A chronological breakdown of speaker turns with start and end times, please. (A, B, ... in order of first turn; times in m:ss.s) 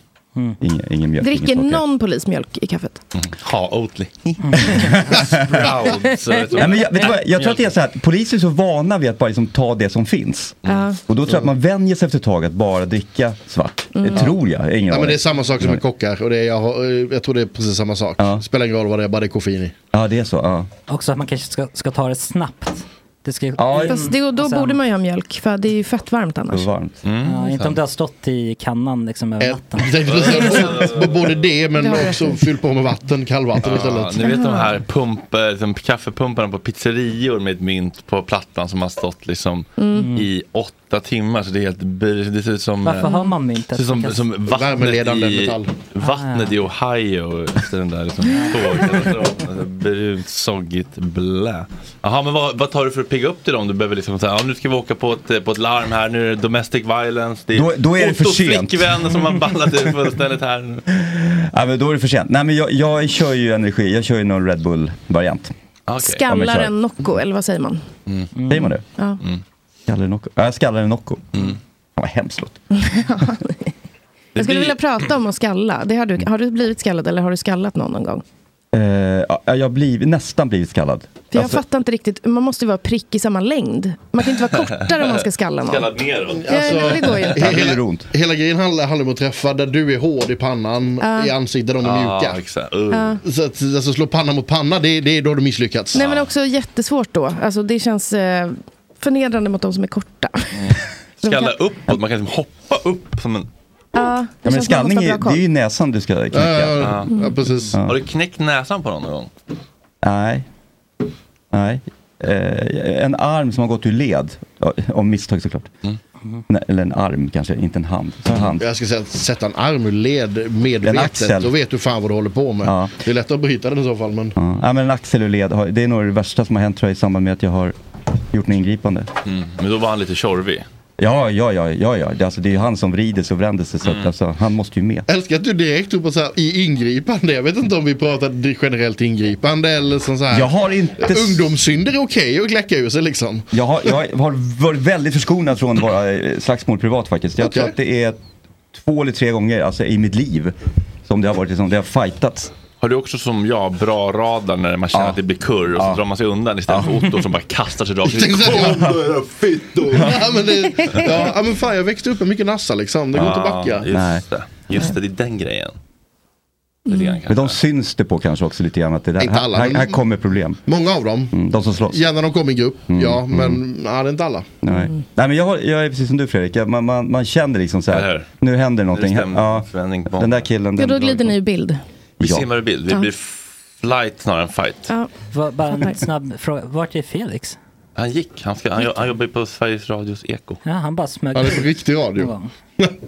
0:00.6-0:01.8 A
0:01.2-0:03.0 B
0:03.2-0:07.7 C
0:05.0-0:05.7 A
0:06.6-0:15.8 A
0:10.6-0:11.0 B
0:13.9-0:14.3 B
0:14.9-0:19.8 D
0:19.9-0:20.7 A
0:20.9-0:24.8 E
0:23.6-0:24.0 A
0:23.8-0:26.7 B
0:26.5-0:27.0 A
0:27.0-0:27.8 C
0:27.2-0:30.7 E
0:29.4-0:34.2 D
0:30.1-0:31.4 C
0:31.8-0:32.3 B
0:33.6-0:43.1 C
0:34.2-0:34.8 B
0:39.8-0:40.1 B
0:39.9-0:40.3 E
0:42.8-0:44.2 E
0:43.0-0:43.3 B
0:43.7-1:00.8 C
0:44.5-0:45.7 D
0:46.0-0:46.6 E
0:57.5-0:59.4 A
1:00.9-1:05.5 A
1:05.9-1:06.3 C
1:06.0-1:07.8 B
1:06.2-1:06.7 A
1:08.4-1:08.7 E
1:08.5-1:08.8 A
1:09.9-1:11.3 A
1:12.0-1:12.6 A
1:12.7-1:13.7 B
1:14.4-1:14.8 C
1:14.4-1:18.2 B
1:18.7-1:21.6 A
1:21.3-1:25.9 B
1:24.8-1:27.3 C
1:26.4-1:32.4 D
1:26.5-1:27.4 B
1:27.4-1:28.1 A
1:31.0-1:31.3 B
1:31.8-1:33.2 C
1:32.9-1:33.2 B
1:33.2-1:36.0 D
1:36.0-1:40.7 B
1:36.0-1:36.3 C
1:40.5-1:43.5 C
1:41.2-1:41.5 B
1:44.0-1:45.4 B
1:44.4-1:46.8 A
1:46.3-1:47.8 D
1:46.8-1:47.1 C
1:47.8-1:49.3 C
1:50.0-1:50.4 A
1:51.5-1:55.7 A
1:56.5-1:58.6 A
1:58.6-2:04.4 D
2:00.8-2:01.5 A
2:02.6-2:03.0 A
2:04.4-2:07.8 A
2:08.3-2:09.1 A
2:09.3-2:10.7 C
2:11.0-2:15.1 A
2:13.8-2:14.1 C
2:15.1-2:23.5 D
2:20.3-2:21.5 A
2:23.5-2:28.2 A
2:27.4-2:27.8 D
2:28.7-2:30.5 A
2:31.1-2:32.5 A
2:32.8-2:38.9 C
2:34.9-2:35.2 A
2:35.7-2:36.0 A
2:36.7-2:37.2 A
2:38.1-2:39.1 D
2:38.8-2:40.3 A
2:39.9-2:43.9 D
2:40.8-2:41.1 B
2:43.1-2:45.8 C
2:43.9-2:44.2 A
2:46.9-2:47.2 B
2:46.9-2:47.6 C
2:47.3-2:50.6 A
2:49.2-2:50.0 D
2:50.7-2:51.3 D
2:51.3-2:52.0 A
2:51.9-2:54.5 D
2:52.9-2:53.6 A
2:54.6-3:01.4 A
2:54.7-2:55.0 B
2:57.9-2:58.3 C
2:58.9-3:00.5 C
3:00.8-3:01.8 B
3:02.2-3:02.5 A
3:02.2-3:04.9 C
3:05.3-3:07.6 E
3:05.7-3:06.0 B
3:08.0-3:10.6 C
3:10.6-3:12.5 E
3:11.3-3:12.9 D